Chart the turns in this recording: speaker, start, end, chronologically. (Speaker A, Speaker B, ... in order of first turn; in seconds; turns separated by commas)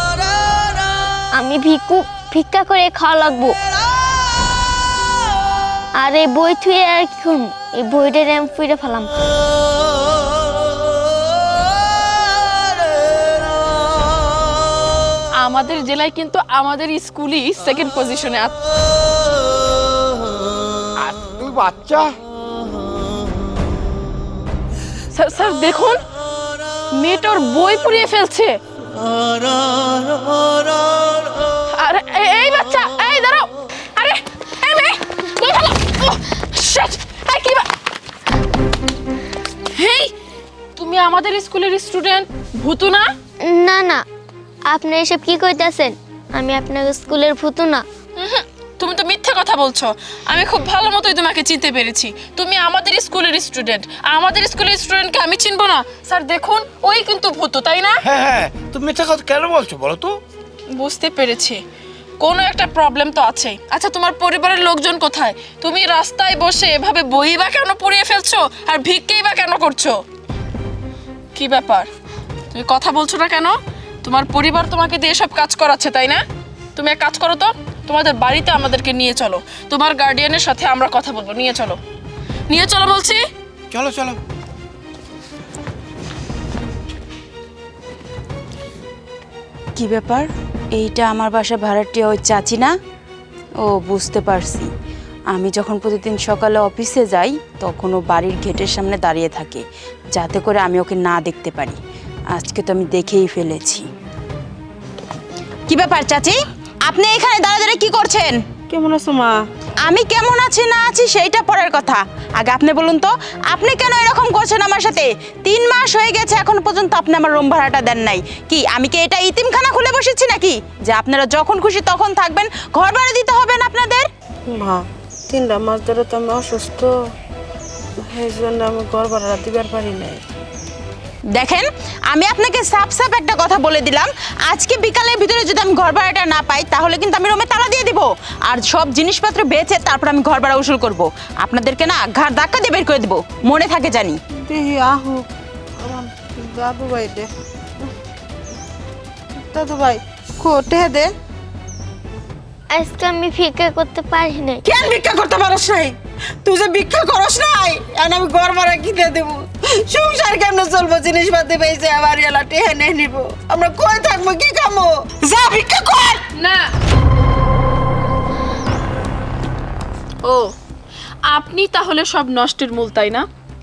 Speaker A: 1.3-3.6, Speaker A: 6.0-9.1, Speaker B: 15.4-18.6, Speaker C: 21.0-22.1, Speaker B: 25.1-26.0, Speaker B: 26.9-28.6, Speaker B: 31.7-37.7, Speaker B: 39.7-40.1, Speaker B: 40.8-43.1, Speaker A: 43.4-44.0, Speaker A: 44.7-47.8, Speaker B: 48.2-58.0, Speaker C: 58.0-60.2, Speaker B: 60.7-61.6, Speaker B: 62.2-70.0, Speaker B: 71.3-71.9, Speaker B: 72.5-76.2, Speaker B: 76.8-81.8, Speaker B: 82.5-83.2, Speaker C: 83.7-84.2, Speaker D: 89.8-92.7, Speaker D: 93.6-94.7, Speaker D: 95.3-99.6, Speaker D: 100.1-101.8, Speaker D: 102.3-103.8, Speaker D: 105.7-108.4, Speaker E: 108.7-109.4, Speaker D: 109.8-124.1, Speaker E: 124.5-126.9, Speaker E: 128.0-130.2, Speaker D: 131.3-144.2, Speaker E: 144.4-145.2, Speaker E: 145.8-147.3, Speaker E: 149.4-151.1, Speaker A: 152.7-154.6, Speaker E: 154.6-166.2, Speaker B: 166.3-166.7, Speaker B: 170.2-170.5, Speaker B: 171.3-173.2